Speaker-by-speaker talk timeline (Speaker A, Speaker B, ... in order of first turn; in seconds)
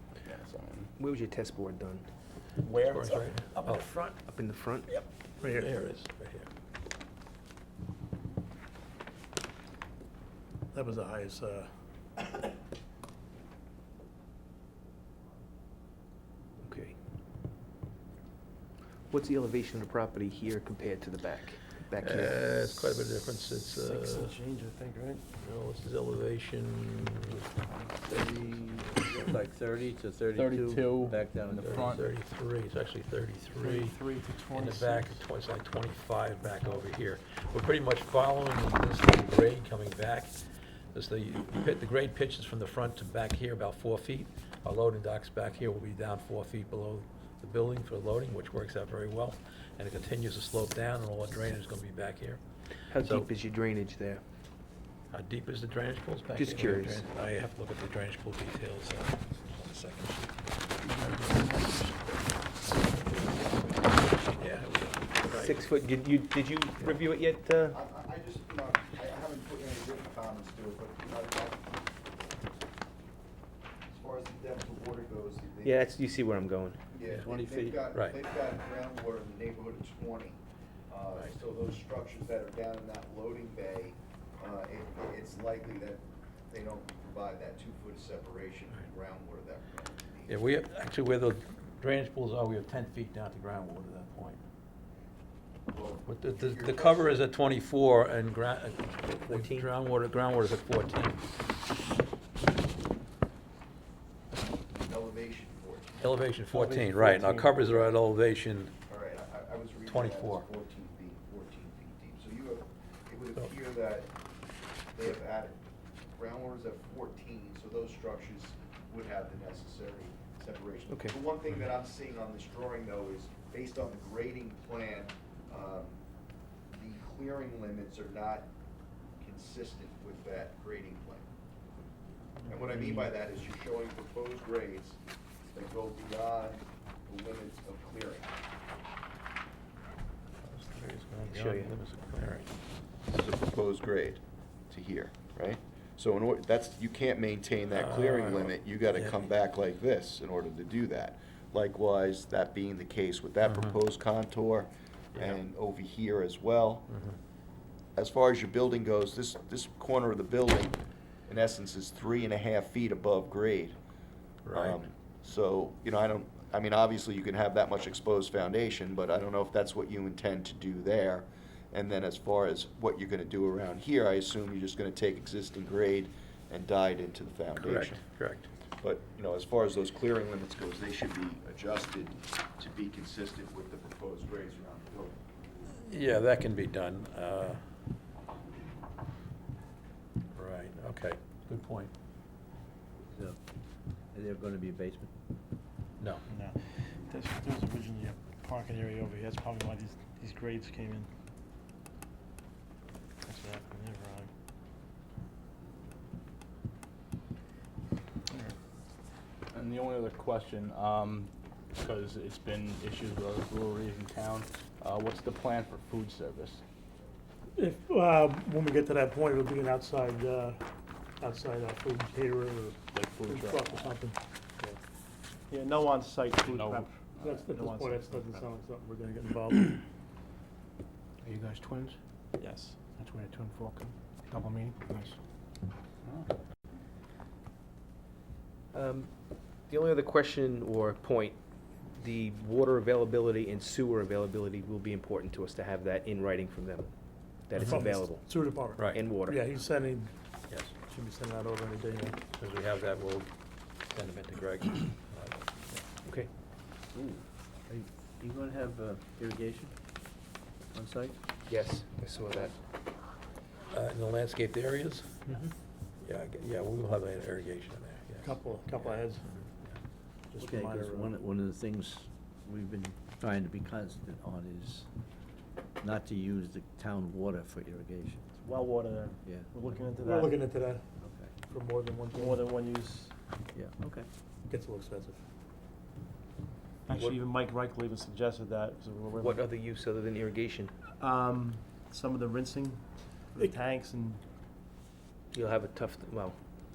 Speaker A: 0.2-0.9, 30.3-32.0, 209.5-216.6, 222.9-223.9, 226.4-227.5
Speaker B: 0.9-2.0, 3.1-4.9, 16.6-16.9, 19.1-22.8, 52.9-54.2, 56.3-57.0, 65.3-67.8, 75.6-76.8, 99.2-99.7, 120.9-121.2, 141.2-141.7, 238.7-239.1, 239.7-241.4, 241.9-246.9, 247.4-249.4, 256.0-256.3, 261.5-262.6, 286.9-287.2, 289.1-290.7, 295.3-296.4
Speaker C: 2.7-3.9, 5.4-6.5, 22.0-24.4, 25.4-27.4, 31.5-34.0, 34.5-40.4, 40.9-52.4, 53.0-53.3, 55.1-61.1, 64.4-65.6, 77.9-78.2, 90.3-94.4, 96.0-101.2, 106.0-108.7, 109.9-110.5, 140.4-142.5, 147.7-149.2, 153.4-153.8, 155.1-155.4, 156.9-157.2, 164.4-164.8, 177.6-178.5, 185.7-187.6, 190.3-191.9, 248.8-249.0, 250.5-250.7, 252.3-253.3, 253.9-255.7, 263.7-265.2, 266.0-269.8
Speaker D: 5.4-5.7, 10.7-11.7, 217.6-220.6, 221.2-224.7, 227.2-229.8, 247.6-250.1, 250.9-252.2, 268.2-269.2, 270.3-271.1, 280.0-280.8, 281.5-282.5, 284.5-285.2
Speaker E: 23.7-25.2, 28.1-28.6, 33.5-35.2, 60.9-61.9, 106.5-107.6, 196.3-196.6, 197.1-201.1, 203.2-204.3, 225.5-228.5, 232.5-235.1, 278.4-280.5, 282.1-283.1, 286.9-289.5, 291.0-294.2
Speaker F: 28.0-32.0, 77.1-77.8, 193.1-193.4, 194.1-195.1, 231.2-231.8, 256.9-259.7, 260.7-261.2, 270.4-274.9, 275.8-278.4, 279.2-279.5, 281.0-281.3, 283.5-284.1
Speaker G: 67.7-71.6, 73.9-75.8, 76.9-90.4, 95.7-97.2, 104.7-106.0, 108.9-114.1, 114.9-115.6, 116.1-126.0, 126.7-128.5, 129.2-131.3, 132.4-135.0, 135.5-138.3, 143.1-156.9, 157.9-163.8, 164.5-178.0, 178.8-185.1